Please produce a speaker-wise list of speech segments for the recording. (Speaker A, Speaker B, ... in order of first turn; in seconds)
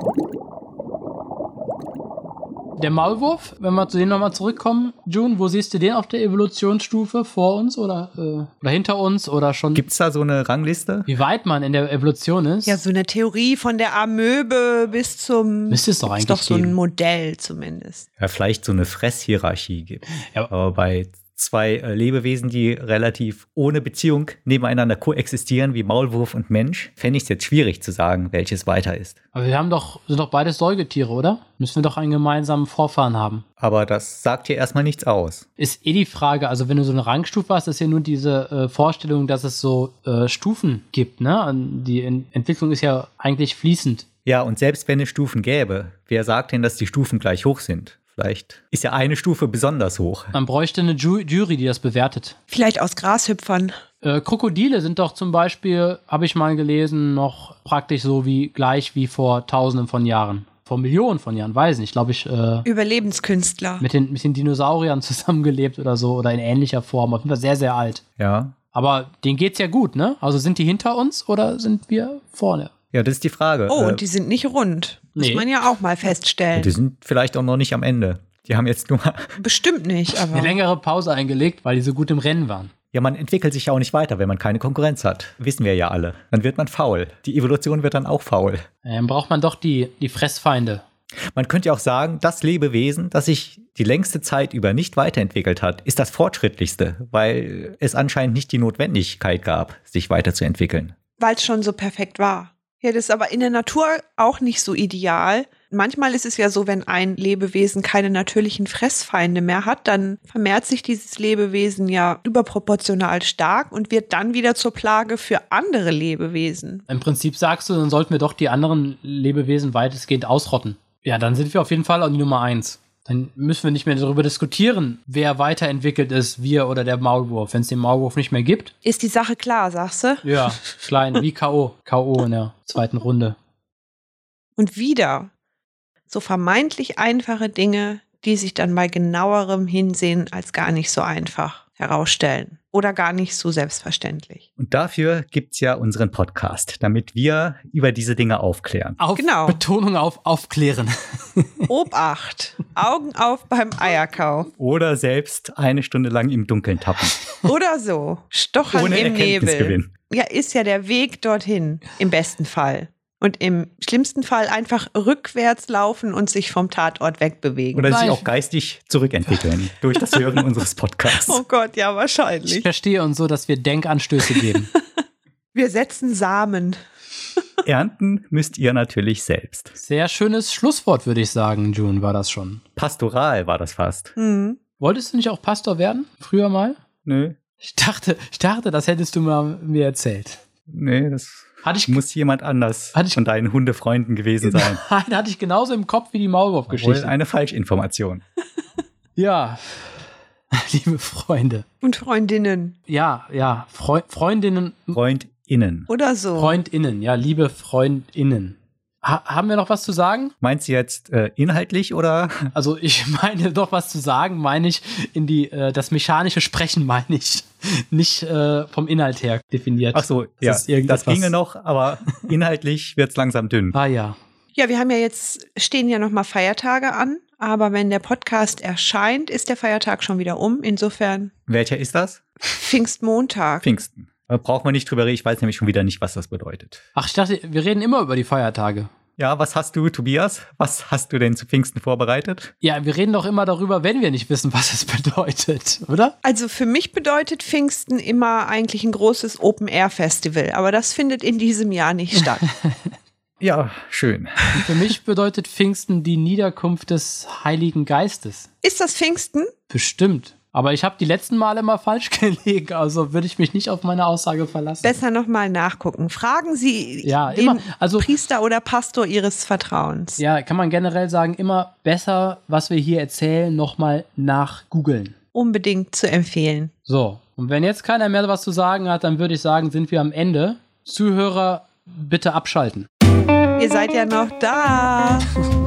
Speaker A: 2.8-9.9, 11.1-12.8, 15.7-16.8, 29.3-33.5, 35.6-44.1, 50.3-52.4, 54.0-62.7, 63.8-68.0, 68.7-72.7, 75.2-75.5, 80.3-82.7, 88.8-90.8, 116.9-128.7, 130.2-133.4, 149.0-151.7, 167.9-168.3, 172.5-174.7, 179.8-182.6, 184.8-186.8, 187.6-190.4, 191.6-192.0, 192.9-193.2, 194.4-197.1, 199.2-201.7, 202.9-205.0, 206.4-210.3, 212.5-221.3, 223.7-224.2, 236.9-238.9, 242.6-246.2, 252.4-252.9, 254.6-258.5, 259.7-264.9, 267.0-268.1, 270.2-275.2, 276.9-282.9
Speaker B: 9.8-11.1, 18.2-29.2, 33.6-35.5, 44.3-50.3, 68.2-68.6, 72.9-74.0, 76.5-79.3, 82.9-88.7, 91.3-100.9, 144.6-149.0, 154.6-157.2, 158.7-159.9, 167.7-171.4, 177.6-179.7, 182.8-184.1, 187.1-187.4, 190.7-194.8, 196.7-198.2, 204.9-205.9, 210.4-212.5, 219.9-223.8, 231.5-232.2, 233.6-236.8, 239.2-242.5, 253.4-254.4
Speaker C: 12.7-18.1, 52.5-53.8, 62.6-63.8, 73.7-76.8, 79.4-80.6, 101.2-116.8, 128.8-130.6, 134.6-135.3, 136.1-144.4, 149.2-149.6, 151.7-154.5, 157.4-167.9, 171.1-172.7, 174.2-174.8, 175.6-176.8, 184.2-184.6, 201.8-202.8, 205.9-206.6, 224.6-231.3, 232.5-233.7, 246.2-252.5, 258.6-259.5, 264.8-270.2, 275.3-276.7, 283.6-285.3